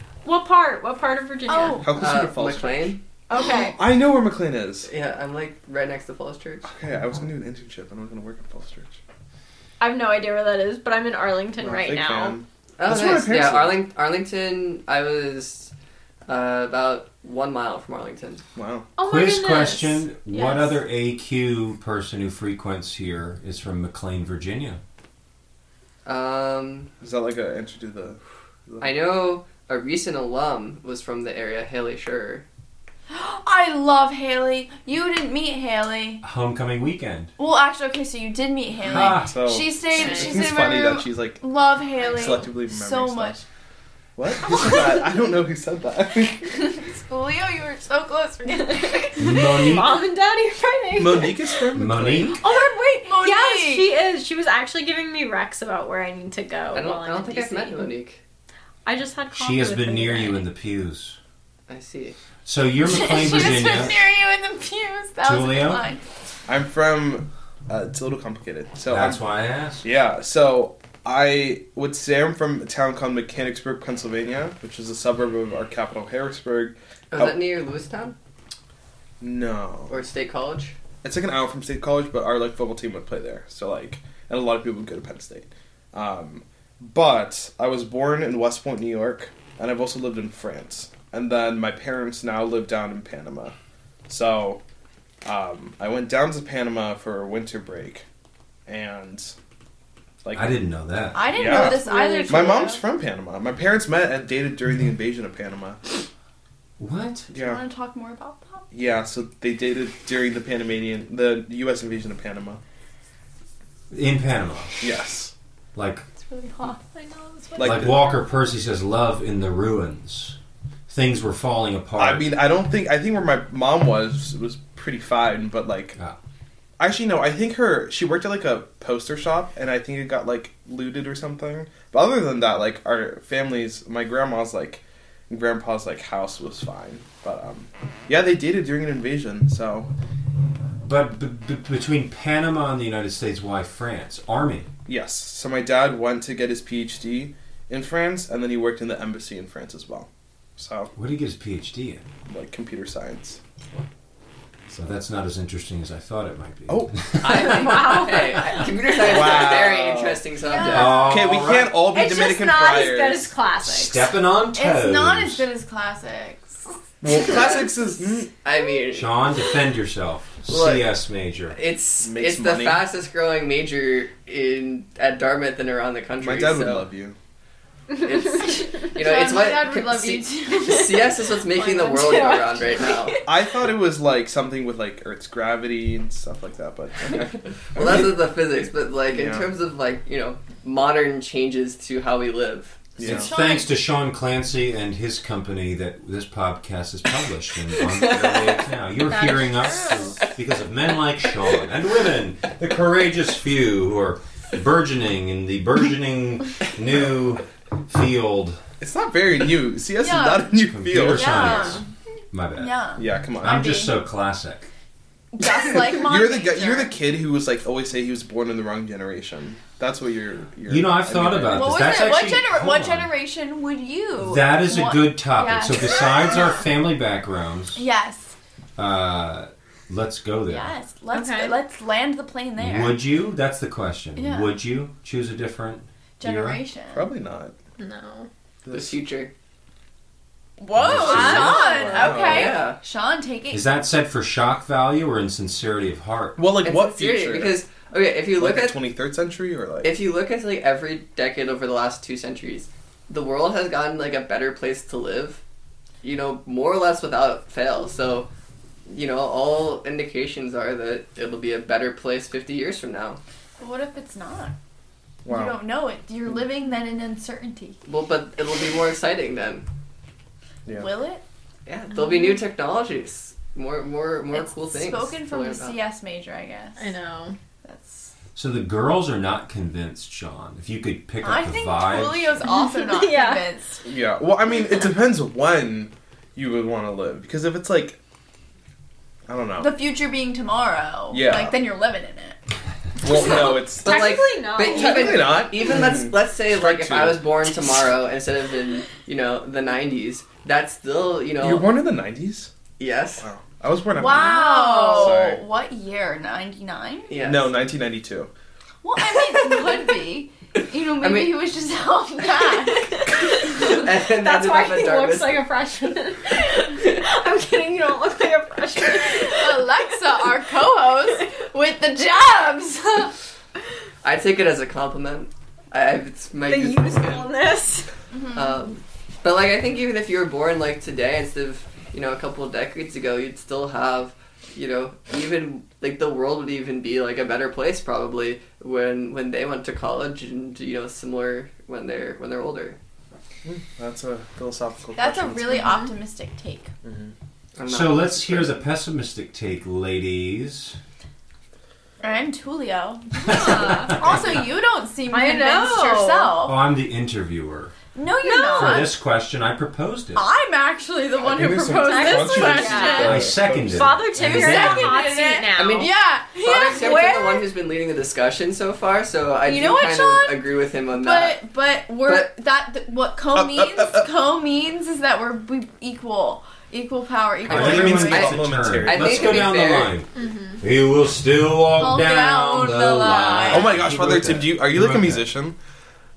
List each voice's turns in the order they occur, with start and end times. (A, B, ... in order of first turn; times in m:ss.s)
0:00.2-0:02.0 A
0:01.5-0:02.0 B
0:01.8-0:03.0 C
0:01.9-0:03.0 D
0:03.3-0:03.8 A
0:03.5-0:04.9 C
0:04.8-0:06.7 D
0:06.6-0:09.0 C
0:09.8-0:12.4 A
0:11.6-0:13.8 C
0:12.8-0:15.7 D
0:16.3-0:18.4 D
0:18.6-0:18.9 C
0:19.0-0:20.8 A
0:19.0-0:24.8 E
0:26.0-0:26.9 D
0:27.0-0:28.9 C
0:28.8-0:32.4 D
0:33.1-0:36.2 B
0:36.2-0:37.3 E
0:37.4-0:43.4 B
0:38.8-0:39.4 E
0:38.9-0:41.4 C
0:39.9-0:40.4 A
0:42.0-0:43.4 C
0:42.0-0:42.4 A
0:44.2-0:46.7 C
0:44.5-0:44.9 B
0:46.4-0:49.6 B
0:49.0-0:51.5 A
0:49.2-0:50.0 E
0:50.9-0:52.4 C
0:51.7-0:52.4 E
0:52.3-0:53.9 B
0:52.5-0:57.9 A
0:56.7-0:58.2 D
0:58.8-1:00.4 A
0:59.3-1:01.2 E
1:01.7-1:02.2 D
1:02.4-1:04.0 E
1:02.8-1:06.0 B
1:05.2-1:05.8 E
1:06.4-1:09.2 C
1:08.9-1:09.8 E
1:09.8-1:17.4 C
1:17.1-1:18.2 D
1:19.2-1:20.0 C
1:19.9-1:20.7 D
1:21.0-1:33.5 C
1:34.1-1:34.6 C
1:35.2-1:38.0 C
1:38.7-1:39.3 C
1:40.2-1:40.5 C
1:40.3-1:41.7 E
1:41.1-1:42.8 B
1:41.3-1:45.9 C
1:41.8-1:42.3 A
1:46.8-1:47.3 E
1:47.3-1:47.6 C
1:47.3-1:48.7 B
1:48.7-1:52.6 C
1:53.9-1:54.8 E
1:54.8-1:55.3 C
1:55.7-1:56.0 E
1:56.2-1:57.8 B
1:57.6-1:58.1 C
1:57.6-2:00.4 E
2:00.9-2:02.3 E
2:02.0-2:06.0 C
2:06.8-2:19.9 C
2:20.8-2:24.7 E
2:24.8-2:30.9 C
2:30.9-2:32.0 E
2:32.2-2:33.4 C
2:34.8-2:37.5 E
2:36.7-2:37.4 C
2:37.2-2:41.2 D
2:37.4-2:38.7 A
2:39.0-2:40.2 C
2:40.4-2:41.1 B
2:40.6-2:41.8 E
2:40.9-2:43.3 C
2:41.8-2:44.1 A
2:43.6-2:45.4 E
2:44.5-2:46.6 B
2:47.0-2:48.3 C
2:47.1-2:47.7 D
2:48.4-2:49.2 D
2:48.9-2:51.6 E
2:50.5-2:50.9 D
2:51.5-2:56.8 D
2:52.0-2:52.8 C
2:56.2-2:57.2 C
2:57.9-3:03.2 D
2:58.9-3:01.1 B
3:01.5-3:03.3 A
3:03.2-3:08.2 C
3:07.7-3:12.9 D
3:09.1-3:09.5 C
3:13.0-3:13.3 C
3:13.0-3:13.7 B
3:13.0-3:28.6 E
3:17.9-3:18.5 D
3:19.1-3:20.1 A
3:28.8-3:31.7 C
3:30.0-3:31.9 B
3:30.7-3:31.8 E
3:32.3-3:34.7 E
3:32.6-3:34.0 B
3:33.0-3:33.8 C
3:35.3-3:36.9 B
3:35.5-3:42.0 C
3:40.7-3:43.1 E
3:41.5-3:46.3 B
3:44.2-3:47.8 E
3:47.8-3:48.3 B
3:48.8-3:50.7 E
3:50.5-3:53.0 B
3:51.1-3:51.5 A
3:52.6-3:56.6 E
3:54.2-3:54.6 B
3:56.2-3:57.1 B
3:56.9-3:57.5 C
3:57.8-3:58.3 A
3:58.6-3:59.0 C
3:58.7-3:59.3 D
4:00.6-4:03.6 B
4:00.8-4:01.6 E
4:00.8-4:02.1 A
4:01.6-4:02.6 C
4:02.0-4:02.8 D
4:03.5-4:06.4 E
4:06.4-4:07.6 C
4:06.6-4:08.8 D
4:08.4-4:10.0 C
4:09.8-4:15.4 D
4:16.0-4:18.3 D
4:18.8-4:23.2 D
4:23.6-4:24.5 B
4:25.2-4:25.5 C
4:25.3-4:27.8 B
4:27.9-4:29.7 D
4:30.7-4:31.2 B
4:31.6-4:35.8 D
4:34.3-4:36.8 B
4:36.8-4:37.4 A
4:37.6-4:38.1 B
4:38.4-4:42.4 E
4:41.2-4:43.8 B
4:42.4-4:43.4 A
4:43.8-4:48.0 C
4:49.3-4:49.8 C
4:49.6-4:52.4 B
4:51.1-4:51.6 C
4:53.0-4:57.3 C
4:53.0-5:01.7 D
4:53.3-4:55.3 A
5:01.4-5:02.5 C
5:02.8-5:03.2 D
5:03.2-5:05.4 C
5:03.9-5:07.1 B
5:04.0-5:05.1 A
5:07.1-5:07.5 D
5:07.2-5:08.3 C
5:08.8-5:13.0 B
5:11.0-5:11.4 D
5:12.7-5:19.7 A
5:13.1-5:15.4 D
5:19.3-5:23.1 B
5:24.0-5:27.3 D
5:26.5-5:27.9 A
5:28.1-5:28.6 B
5:28.3-5:42.8 D
5:43.4-5:45.8 C
5:45.0-5:46.7 B
5:45.5-5:45.9 A
5:46.8-5:47.1 C
5:47.6-5:48.5 D
5:47.6-5:50.8 E
5:52.0-5:56.6 B
5:53.2-5:54.4 E
5:53.3-5:54.2 A
5:55.1-5:56.4 A
5:56.4-5:57.8 E
5:57.9-5:58.9 B
5:58.2-5:58.9 A
5:58.5-6:00.3 E
6:00.1-6:03.3 B
6:01.2-6:04.0 C
6:01.7-6:05.9 A
6:02.9-6:05.1 E
6:04.2-6:07.4 B
6:05.5-6:11.4 D
6:06.8-6:07.1 A
6:09.4-6:18.4 B
6:13.3-6:14.1 C
6:17.5-6:19.9 D
6:17.5-6:25.2 E
6:17.5-6:19.6 C
6:20.2-6:20.6 A
6:21.7-6:23.8 B
6:23.5-6:25.6 C